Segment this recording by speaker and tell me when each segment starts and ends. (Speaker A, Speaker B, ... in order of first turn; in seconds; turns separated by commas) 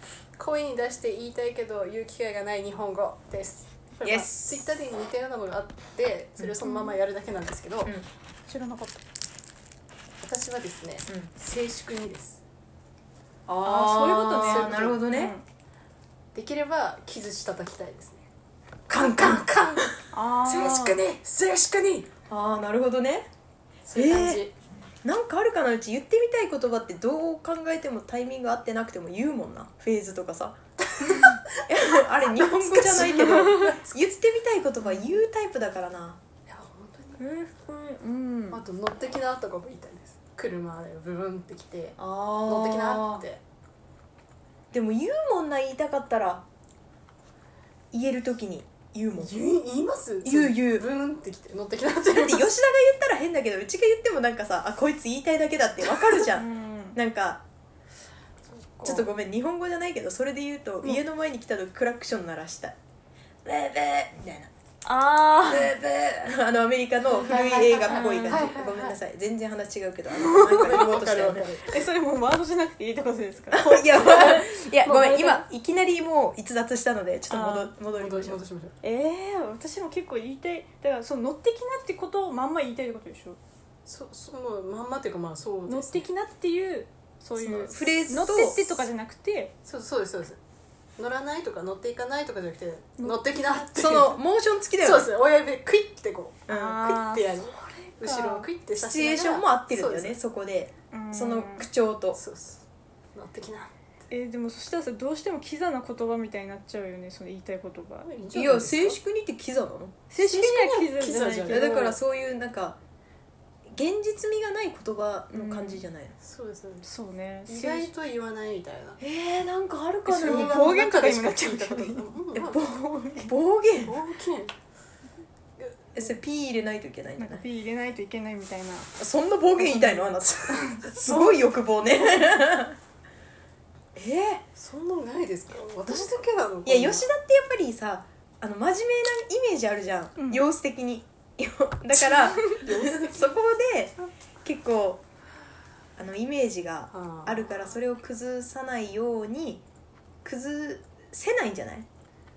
Speaker A: 0.4-7.9, Speaker B: 4.0-4.6, Speaker C: 6.6-6.9, Speaker C: 8.5-9.0, Speaker A: 10.2-12.4, Speaker B: 13.5-15.3, Speaker C: 13.6-15.4, Speaker A: 14.4-15.0, Speaker A: 16.3-18.3, Speaker B: 18.9-19.9, Speaker A: 18.9-19.8, Speaker C: 20.1-21.0, Speaker A: 20.4-22.1, Speaker B: 22.3-23.3, Speaker A: 23.9-24.6, Speaker B: 23.9-24.4, Speaker B: 25.0-36.2, Speaker A: 31.0-31.6, Speaker C: 31.1-31.4, Speaker A: 32.3-33.9, Speaker A: 36.5-37.2, Speaker C: 37.2-38.6, Speaker A: 38.5-43.4, Speaker B: 42.0-43.2, Speaker B: 44.7-46.5, Speaker B: 47.9-49.4, Speaker A: 49.2-52.5, Speaker B: 50.2-50.8, Speaker B: 52.1-57.4, Speaker C: 56.2-57.0, Speaker A: 58.5-59.1, Speaker B: 58.8-62.8, Speaker B: 63.5-64.5, Speaker C: 64.8-65.8, Speaker B: 65.5-71.5, Speaker A: 67.2-69.0, Speaker C: 67.3-68.6, Speaker C: 70.2-71.0, Speaker A: 70.6-71.7, Speaker C: 71.7-75.4, Speaker B: 73.5-78.4, Speaker C: 77.3-77.7, Speaker A: 77.9-78.8, Speaker C: 78.8-83.4, Speaker A: 83.9-86.0, Speaker C: 85.7-89.5, Speaker B: 87.4-88.8, Speaker A: 89.6-90.4, Speaker A: 91.0-94.2, Speaker C: 93.0-93.7, Speaker B: 93.7-95.1, Speaker A: 94.8-100.2, Speaker C: 96.5-98.5, Speaker B: 96.5-96.8, Speaker B: 98.7-102.2, Speaker C: 100.9-101.7, Speaker A: 102.1-103.7, Speaker C: 104.1-108.1, Speaker A: 108.1-109.0, Speaker B: 108.3-110.0, Speaker C: 110.1-112.0, Speaker A: 110.2-111.7, Speaker B: 111.5-112.8, Speaker B: 113.7-116.2, Speaker C: 115.3-115.9, Speaker A: 116.2-116.9, Speaker C: 116.9-117.9, Speaker A: 117.5-119.0, Speaker B: 119.0-120.6, Speaker A: 120.1-122.6, Speaker C: 120.2-122.1, Speaker B: 122.3-124.0, Speaker C: 122.9-123.3, Speaker A: 123.8-124.5, Speaker B: 125.9-127.4, Speaker C: 127.2-128.9, Speaker B: 129.0-132.8, Speaker C: 129.7-130.8, Speaker B: 133.9-134.4, Speaker A: 134.5-137.1, Speaker B: 136.7-145.0, Speaker C: 140.2-140.4, Speaker A: 142.4-143.3, Speaker B: 146.0-149.6, Speaker A: 146.9-147.5, Speaker B: 150.2-151.8